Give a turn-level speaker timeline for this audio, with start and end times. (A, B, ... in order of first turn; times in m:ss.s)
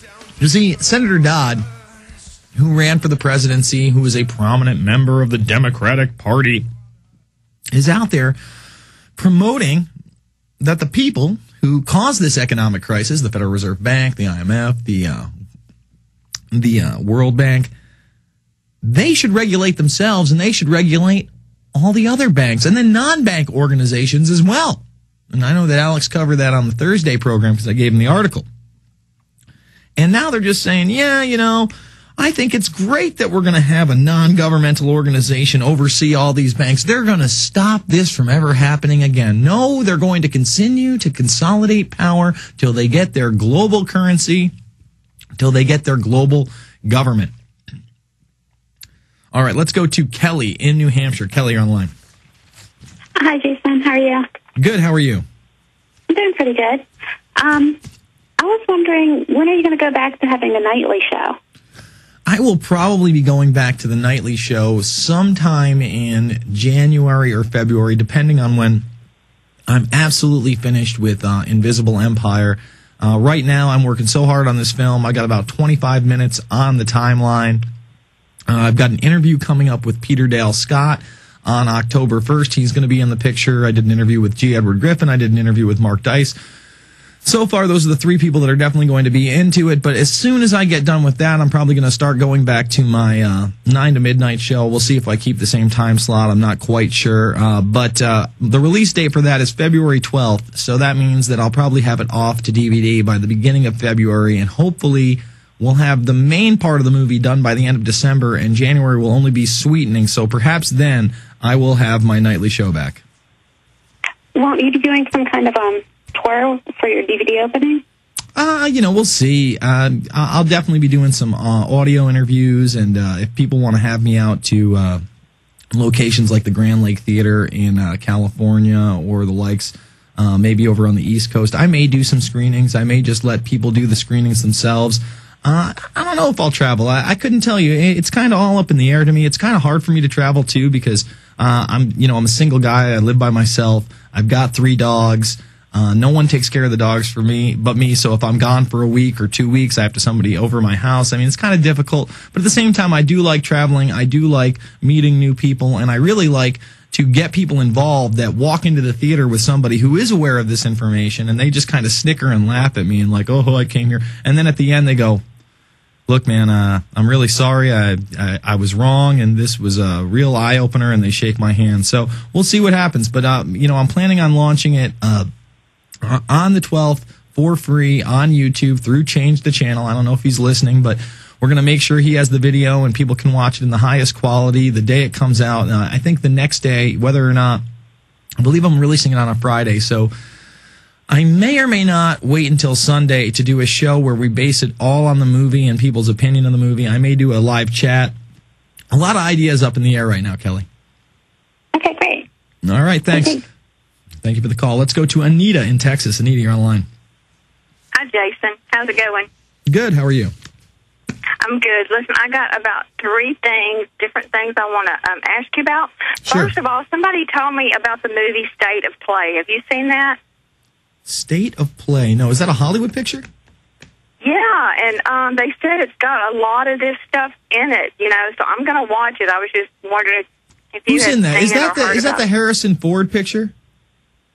0:00.4-0:01.6 A
0:02.6-0:06.6 A
0:07.7-0:08.4 A
0:09.2-0:09.9 A
0:10.6-0:15.3 A
0:16.5-0:17.7 A
0:18.8-0:28.4 A
0:30.0-0:44.5 A
0:45.4-0:47.3 A
0:49.3-0:51.9 A
0:53.2-0:54.2 B
0:54.6-0:55.2 A
0:56.1-0:56.8 B
0:57.4-0:57.8 B
0:58.4-1:01.4 B
1:02.3-1:08.8 A
1:09.7-1:17.6 A
1:18.5-1:26.4 A
1:27.2-1:53.0 A
1:54.4-1:57.8 B
1:58.4-2:05.0 A
2:05.7-2:45.2 A
2:46.1-2:55.3 A
2:56.0-3:07.6 A
3:08.4-3:10.1 A
3:11.1-3:18.1 A
3:18.9-3:20.7 A
3:21.7-3:22.3 B
3:22.6-3:23.4 A
3:23.1-3:23.4 B
3:24.2-3:26.8 A
3:27.9-3:29.3 C
3:29.7-3:30.3 A
3:31.4-3:40.2 C
3:36.3-3:36.5 A
3:41.0-3:43.3 A
3:44.2-3:52.2 C
3:50.9-3:53.5 A